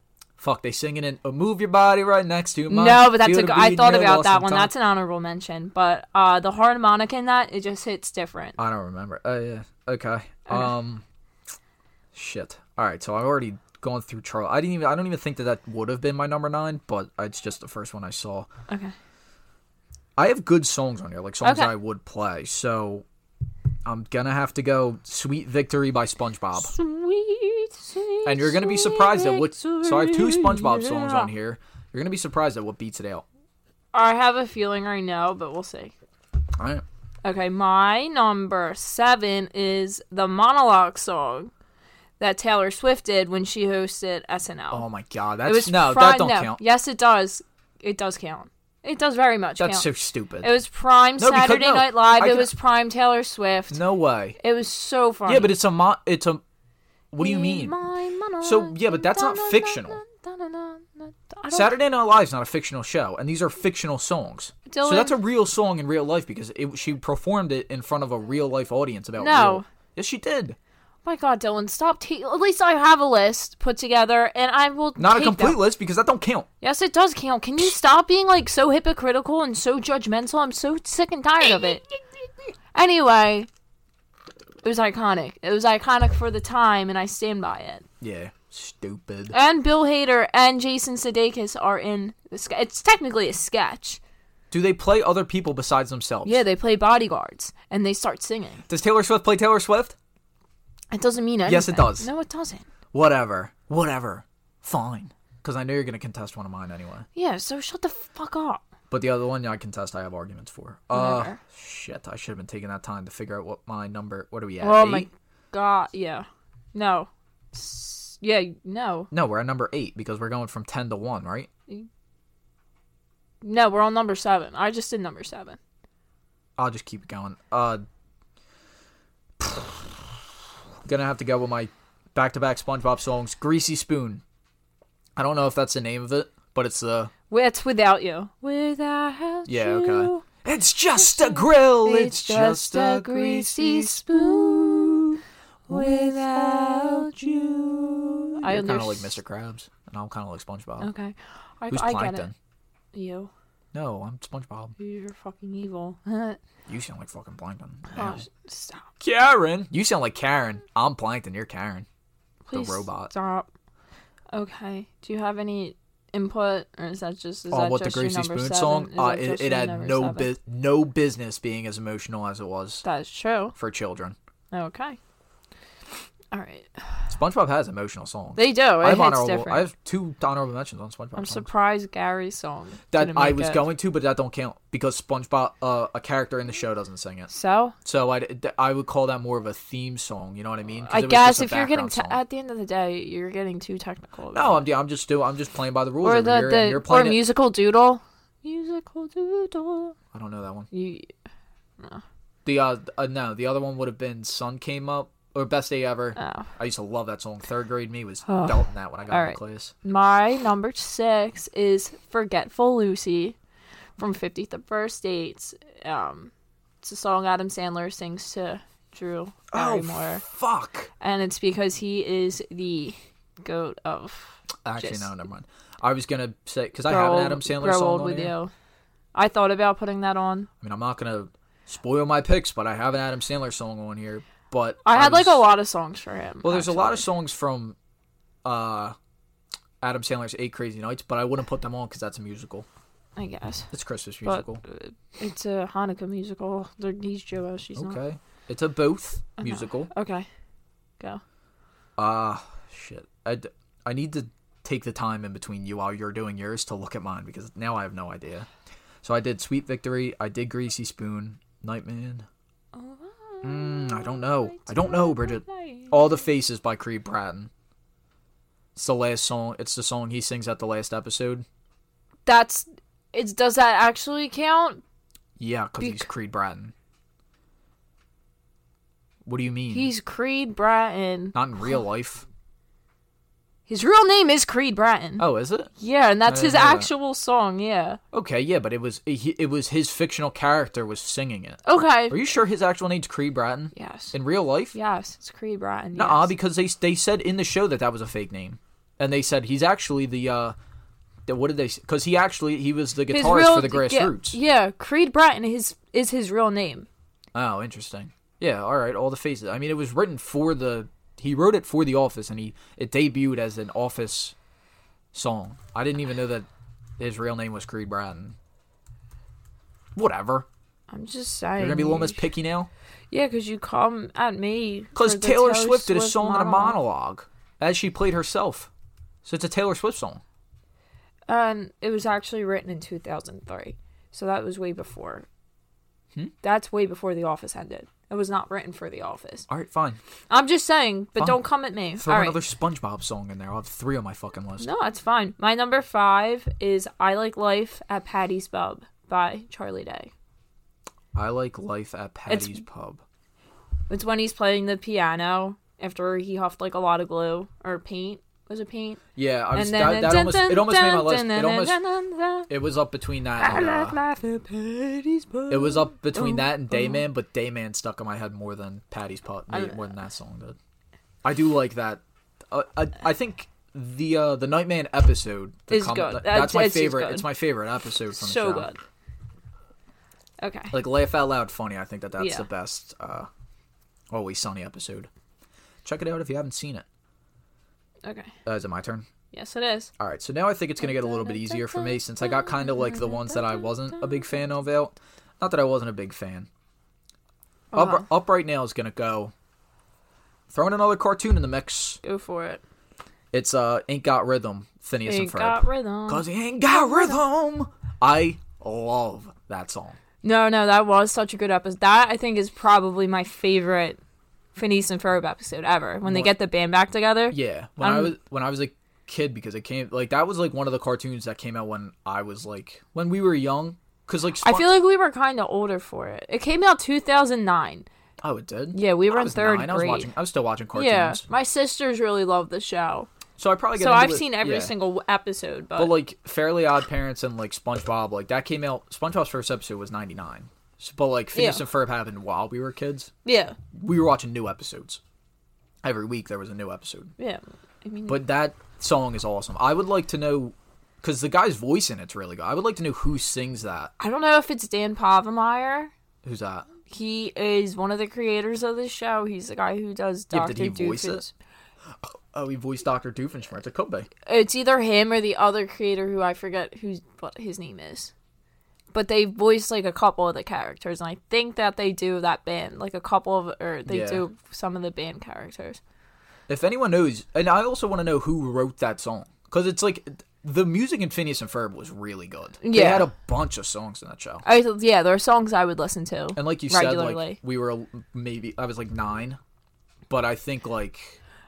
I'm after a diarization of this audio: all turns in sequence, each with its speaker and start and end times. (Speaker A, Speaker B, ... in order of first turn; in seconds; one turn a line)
Speaker A: 0.4-4.7
Speaker B: 2.7-8.6
Speaker A: 8.6-11.0
Speaker A: 12.1-18.5
Speaker B: 18.7-18.9
Speaker A: 20.2-23.1
Speaker B: 21.4-21.7
Speaker A: 23.9-26.7
Speaker B: 26.6-31.3
Speaker A: 28.2-33.2
Speaker B: 33.9-35.9
Speaker A: 36.6-36.8
Speaker B: 37.2-41.5
Speaker B: 42.2-44.9
Speaker A: 44.7-46.6
Speaker B: 45.5-49.9
Speaker A: 49.6-50.5
Speaker B: 50.4-53.8
Speaker A: 51.2-52.5
Speaker A: 53.7-54.4
Speaker B: 54.4-55.5
Speaker A: 55.3-56.4
Speaker A: 57.1-57.7
Speaker B: 57.2-61.8
Speaker A: 58.4-60.0
Speaker A: 61.5-70.6
Speaker B: 64.7-65.2
Speaker B: 69.2-69.7
Speaker B: 71.0-75.6
Speaker A: 75.0-76.5
Speaker B: 76.6-81.8
Speaker A: 81.4-81.8
Speaker B: 82.8-83.5
Speaker B: 84.6-87.9
Speaker A: 88.0-89.3
Speaker B: 89.3-94.0
Speaker A: 94.5-96.4
Speaker B: 96.2-98.7
Speaker A: 98.7-100.0
Speaker B: 100.9-102.7
Speaker A: 101.5-102.1
Speaker A: 102.9-107.1
Speaker B: 107.2-108.6
Speaker A: 108.9-115.1
Speaker B: 110.9-111.4
Speaker B: 114.6-119.1
Speaker A: 119.1-121.5
Speaker B: 123.4-125.6
Speaker A: 126.6-127.8
Speaker A: 129.4-130.1
Speaker A: 130.8-134.2
Speaker A: 135.2-137.1
Speaker B: 137.3-140.2
Speaker A: 139.5-150.9
Speaker B: 141.0-145.1
Speaker B: 145.7-147.4
Speaker B: 148.4-149.2
Speaker B: 150.8-152.3
Speaker A: 151.7-152.3
Speaker B: 152.9-153.3
Speaker A: 153.7-154.8
Speaker B: 154.8-156.4
Speaker A: 156.7-158.3
Speaker B: 157.9-158.8
Speaker A: 159.0-161.9
Speaker B: 162.5-163.5
Speaker A: 162.5-163.1
Speaker B: 164.3-170.3
Speaker A: 167.5-172.8
Speaker B: 172.8-173.6
Speaker A: 173.6-174.2
Speaker B: 174.5-175.0
Speaker B: 176.3-176.8
Speaker A: 177.1-181.5
Speaker B: 178.4-179.7
Speaker B: 181.2-183.7
Speaker A: 182.9-187.3
Speaker B: 187.3-187.8
Speaker A: 187.8-192.2
Speaker B: 190.8-194.7
Speaker A: 194.3-197.2
Speaker B: 196.0-200.0
Speaker A: 200.1-200.7
Speaker B: 200.7-201.1
Speaker A: 202.4-209.7
Speaker B: 206.2-206.5
Speaker B: 208.3-213.4
Speaker B: 214.0-216.3
Speaker B: 216.8-220.2
Speaker A: 219.5-220.9
Speaker B: 221.0-225.1
Speaker A: 224.7-228.3
Speaker B: 226.9-228.5
Speaker B: 229.1-230.5
Speaker A: 230.6-235.5
Speaker B: 234.8-237.1
Speaker A: 236.4-237.8
Speaker A: 238.4-239.0
Speaker A: 239.8-242.7
Speaker B: 243.2-243.7
Speaker A: 243.7-244.6
Speaker B: 244.2-248.0
Speaker A: 247.8-249.9
Speaker B: 249.4-250.3
Speaker A: 252.0-258.5
Speaker A: 259.0-262.3
Speaker B: 262.7-266.1
Speaker A: 263.4-267.5
Speaker A: 268.8-271.5
Speaker B: 272.3-274.8
Speaker A: 275.4-276.7
Speaker B: 275.8-276.1
Speaker A: 279.2-279.9
Speaker B: 279.7-281.4
Speaker A: 281.3-282.3
Speaker B: 283.7-285.3
Speaker A: 285.2-285.7
Speaker B: 285.8-288.0
Speaker A: 286.3-286.9
Speaker A: 288.1-294.8
Speaker B: 291.6-292.3
Speaker B: 293.7-294.2
Speaker B: 294.7-296.3
Speaker A: 295.9-300.6
Speaker A: 301.3-304.4
Speaker B: 303.1-306.9
Speaker A: 307.3-314.4
Speaker A: 315.1-318.4
Speaker A: 319.9-320.5
Speaker B: 320.9-322.2
Speaker A: 321.6-322.7
Speaker B: 323.1-326.8
Speaker A: 324.9-328.7
Speaker A: 329.2-330.2
Speaker B: 331.3-335.3
Speaker B: 336.4-339.5
Speaker A: 339.5-340.0
Speaker B: 340.3-342.4
Speaker A: 341.9-344.7
Speaker B: 344.6-350.1
Speaker A: 351.1-353.0
Speaker B: 352.3-352.6
Speaker B: 353.9-359.0
Speaker A: 359.1-361.8
Speaker B: 359.5-362.5
Speaker A: 362.5-364.0
Speaker B: 363.4-367.0
Speaker A: 365.5-370.6
Speaker B: 369.5-369.9
Speaker A: 371.2-378.7
Speaker B: 375.7-377.3
Speaker B: 378.1-378.8
Speaker B: 380.4-380.8
Speaker A: 380.7-383.3
Speaker B: 382.2-382.5
Speaker A: 384.1-385.1
Speaker A: 385.8-386.9
Speaker B: 388.0-388.3
Speaker A: 388.4-389.1
Speaker B: 389.3-389.9
Speaker A: 390.0-396.5
Speaker B: 390.8-394.4
Speaker B: 397.7-398.1
Speaker A: 397.7-399.3
Speaker A: 400.5-402.0
Speaker B: 402.0-402.6
Speaker A: 403.3-410.0
Speaker B: 405.1-407.2
Speaker B: 410.2-414.0
Speaker B: 414.6-418.1
Speaker A: 416.0-416.3
Speaker A: 417.3-424.7
Speaker B: 424.4-427.9
Speaker A: 428.2-431.2
Speaker B: 428.7-430.1
Speaker B: 430.7-433.1
Speaker A: 433.4-434.7
Speaker B: 433.8-436.0
Speaker A: 435.8-443.1
Speaker B: 441.3-441.6
Speaker B: 443.2-443.6
Speaker A: 443.7-445.0
Speaker A: 445.8-447.1
Speaker B: 447.2-448.2
Speaker A: 448.1-453.9
Speaker B: 454.0-455.9
Speaker A: 456.2-456.7
Speaker B: 456.9-461.3
Speaker A: 460.3-461.3
Speaker A: 462.0-464.1
Speaker B: 464.3-468.1
Speaker B: 468.9-475.8
Speaker A: 473.9-474.2
Speaker A: 476.5-484.4
Speaker B: 482.6-483.1
Speaker B: 484.4-487.4
Speaker A: 486.4-489.4
Speaker A: 490.1-491.2